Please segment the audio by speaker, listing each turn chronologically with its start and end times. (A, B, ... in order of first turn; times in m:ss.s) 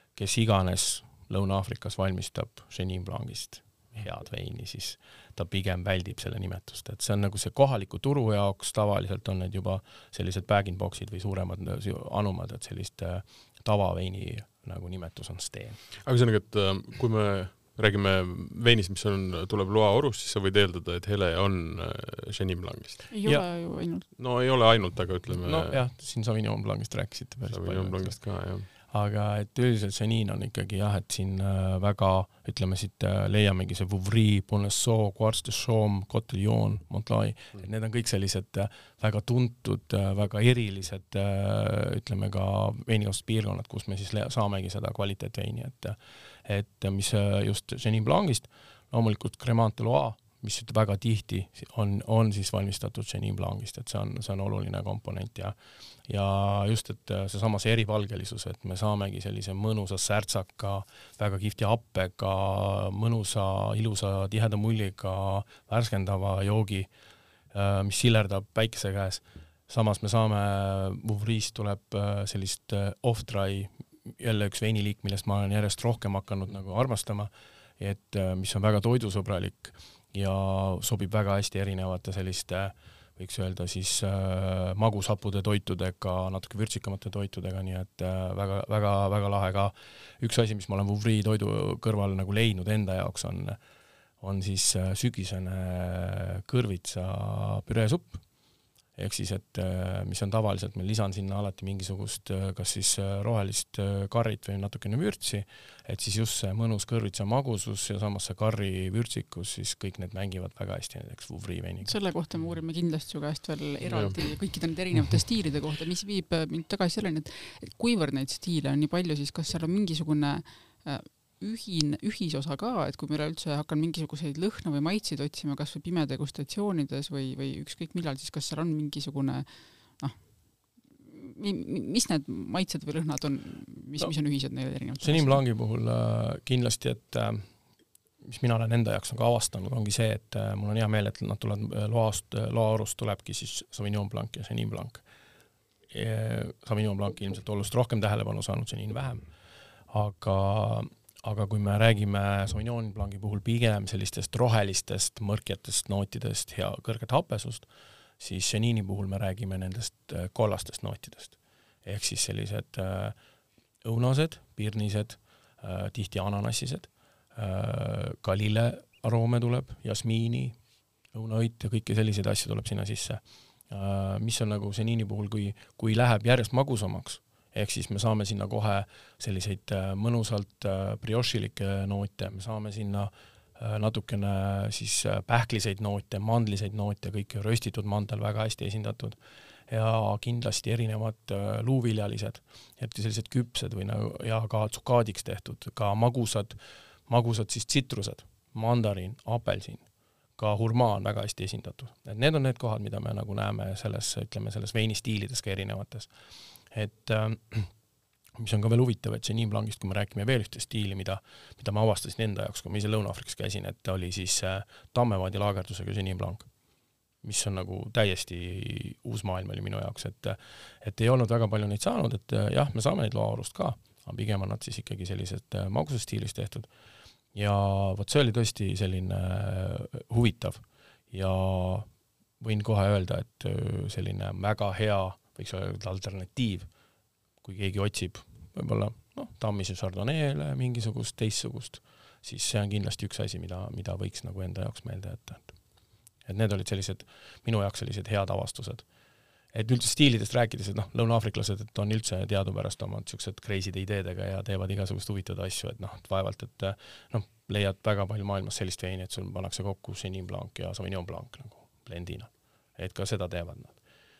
0:00.1-0:15.8 A
0:16.0-0:23.1 B
0:23.1-0:24.0 C
0:24.2-0:25.8 B
0:25.3-0:28.2 A
0:27.5-0:28.7 B
0:28.7-1:06.9 A
1:07.5-1:33.6 A
1:34.2-1:38.2 A
1:39.0-1:51.9 A
1:51.8-2:15.4 C
1:53.8-1:54.2 B
2:15.0-2:17.5 A
2:18.2-2:25.0 A
2:25.9-2:29.2 A
2:29.9-2:37.7 A
2:38.2-2:43.2 A
2:43.8-2:50.6 A
2:51.1-3:09.2 A
3:09.7-3:16.6 A
3:17.1-3:26.1 A
3:26.7-3:27.7 A
3:28.4-3:36.5 A
3:37.2-3:46.7 A
3:47.3-3:51.9 A
3:52.4-3:56.7 A
3:57.4-4:05.5 A
4:06.2-4:08.9 A
4:09.5-4:23.8 A